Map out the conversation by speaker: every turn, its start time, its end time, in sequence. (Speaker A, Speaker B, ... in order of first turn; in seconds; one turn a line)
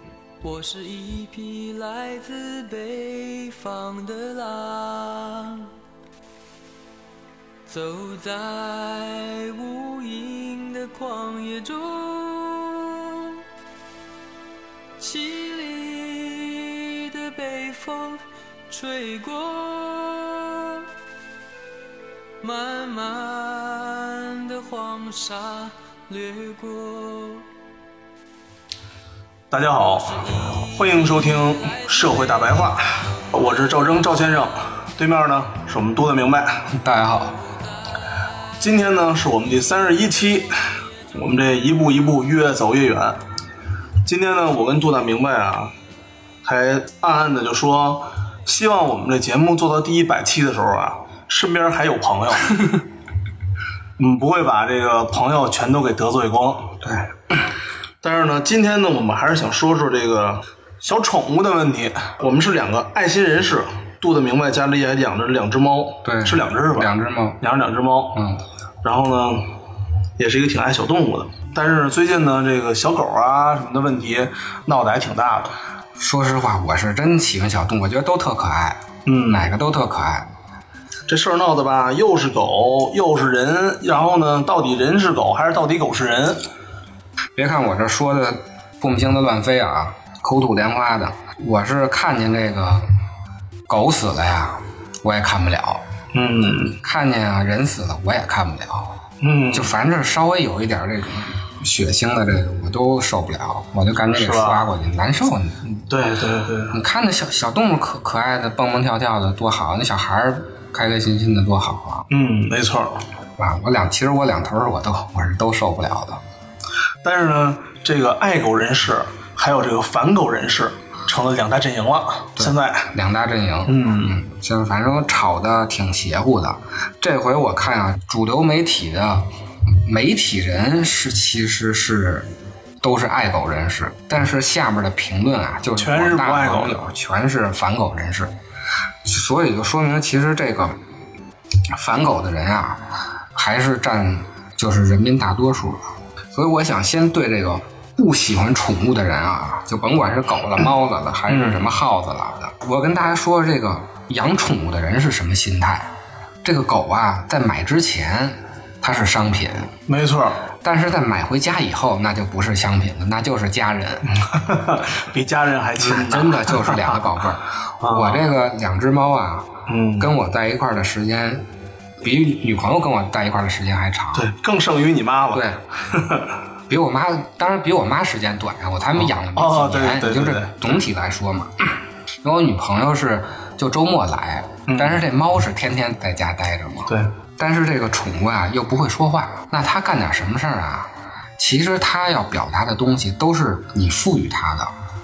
Speaker A: 0.4-5.7
Speaker A: 7.7-13.4
Speaker A: 15.0-20.9
Speaker A: 22.4-27.4
Speaker B: 29.5-36.6
Speaker C: 36.7-37.4
Speaker B: 38.6-43.2
Speaker B: 44.0-45.7
Speaker B: 46.4-52.8
Speaker B: 54.0-56.9
Speaker B: 58.0-68.2
Speaker C: 66.0-67.4
Speaker C: 68.1-68.4
Speaker B: 68.8-69.5
Speaker B: 70.2-75.5
Speaker C: 76.0-80.3
Speaker B: 79.0-79.5
Speaker B: 81.1-86.5
Speaker C: 87.4-92.9
Speaker C: 93.7-95.8
Speaker B: 96.1-96.8
Speaker C: 96.8-99.0
Speaker B: 99.2-99.7
Speaker C: 99.5-105.6
Speaker B: 104.2-104.7
Speaker B: 105.6-106.8
Speaker C: 106.7-112.0
Speaker B: 112.1-113.0
Speaker C: 113.4-116.2
Speaker B: 117.0-122.9
Speaker C: 122.4-132.3
Speaker B: 123.7-124.2
Speaker C: 132.8-138.3
Speaker B: 135.8-136.9
Speaker C: 139.0-140.8
Speaker C: 141.7-155.9
Speaker B: 151.3-151.7
Speaker C: 156.4-159.8
Speaker B: 159.9-160.4
Speaker C: 160.6-164.1
Speaker B: 164.1-167.0
Speaker C: 165.8-171.4
Speaker B: 167.8-168.3
Speaker B: 169.7-170.1
Speaker C: 172.0-174.3
Speaker B: 174.1-176.3
Speaker C: 175.3-175.6
Speaker C: 176.7-194.7
Speaker B: 178.9-180.6
Speaker B: 184.7-185.0
Speaker B: 186.9-187.1